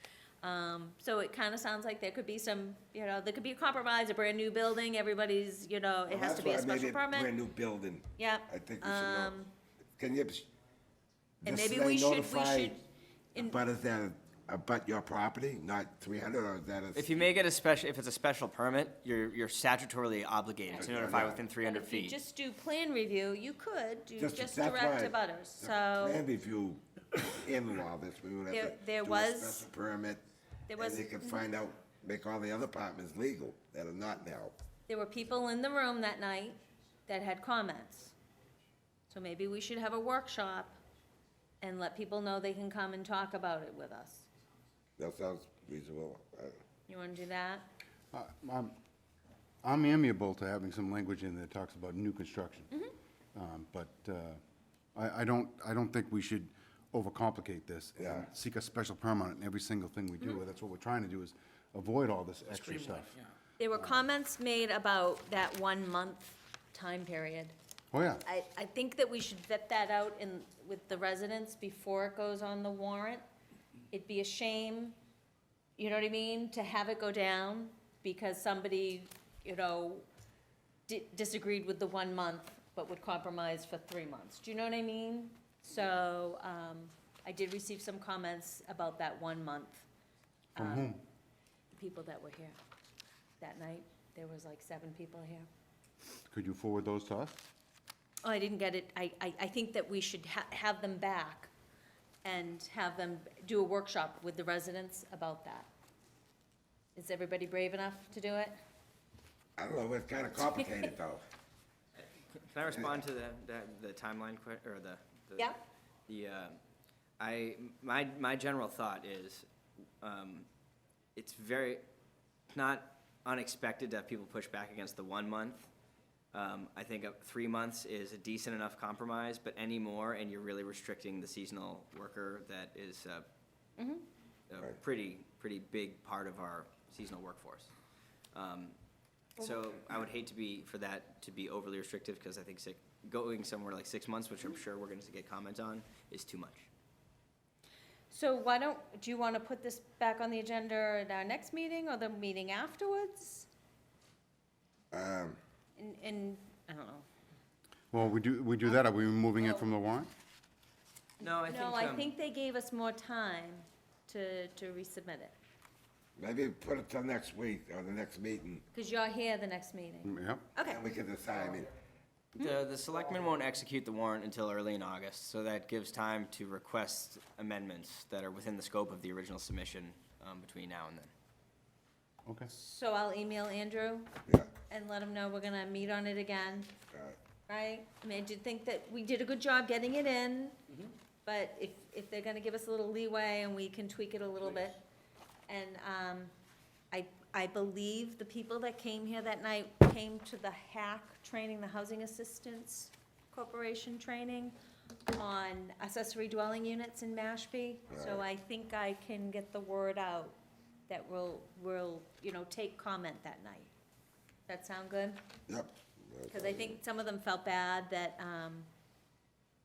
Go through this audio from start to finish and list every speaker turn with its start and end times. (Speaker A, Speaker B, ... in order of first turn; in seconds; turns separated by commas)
Speaker A: 0.4-7.3, Speaker B: 6.1-9.4, Speaker A: 8.2-9.5, Speaker B: 10.0-10.5, Speaker A: 11.4-12.8, Speaker B: 11.4-12.8, Speaker B: 13.4-17.2, Speaker C: 16.9-22.2, Speaker B: 20.8-21.4, Speaker A: 21.6-26.2, Speaker B: 24.2-30.2, Speaker A: 28.5-29.6, Speaker A: 30.7-31.5, Speaker B: 30.8-34.5, Speaker A: 34.9-38.2, Speaker A: 39.1-40.8, Speaker A: 41.6-44.3, Speaker B: 45.0-46.6, Speaker A: 46.9-47.7, Speaker D: 48.1-48.8, Speaker D: 49.6-52.7, Speaker D: 53.4-54.4, Speaker D: 55.0-63.2, Speaker B: 58.0-58.3, Speaker C: 62.5-63.0, Speaker A: 63.6-67.5, Speaker D: 63.8-64.0, Speaker D: 67.9-68.2, Speaker A: 68.2-73.2, Speaker A: 73.9-75.0, Speaker A: 75.8-80.1, Speaker A: 80.9-89.9, Speaker A: 90.6-91.0, Speaker D: 90.6-91.0, Speaker A: 91.7-92.6, Speaker A: 93.4-95.5, Speaker D: 96.3-97.5, Speaker A: 98.2-101.5, Speaker A: 102.2-105.7, Speaker A: 107.0-108.6, Speaker B: 109.6-111.2, Speaker A: 110.4-110.9, Speaker C: 112.2-115.5, Speaker B: 112.7-113.0, Speaker C: 116.1-116.6, Speaker C: 117.2-119.5, Speaker C: 120.0-120.5, Speaker C: 121.2-121.8, Speaker C: 122.5-125.7, Speaker C: 126.3-133.3, Speaker A: 133.8-134.1, Speaker C: 134.5-137.7, Speaker C: 138.3-138.8, Speaker C: 139.4-146.7, Speaker A: 148.1-153.5, Speaker B: 154.9-155.4, Speaker A: 155.8-157.1, Speaker D: 157.9-160.1, Speaker C: 161.2-162.1, Speaker A: 161.3-165.3, Speaker B: 166.2-168.6, Speaker A: 168.7-170.8, Speaker D: 170.1-170.4, Speaker B: 170.6-171.7, Speaker C: 172.3-181.1, Speaker A: 182.5-184.1, Speaker A: 184.7-186.7, Speaker B: 186.9-187.2, Speaker A: 187.5-190.6, Speaker A: 191.2-194.8, Speaker A: 195.5-196.3, Speaker A: 196.9-204.6, Speaker A: 205.1-210.4, Speaker B: 207.9-208.2, Speaker A: 210.9-213.7, Speaker A: 214.5-215.2, Speaker B: 215.5-216.8, Speaker A: 216.3-218.7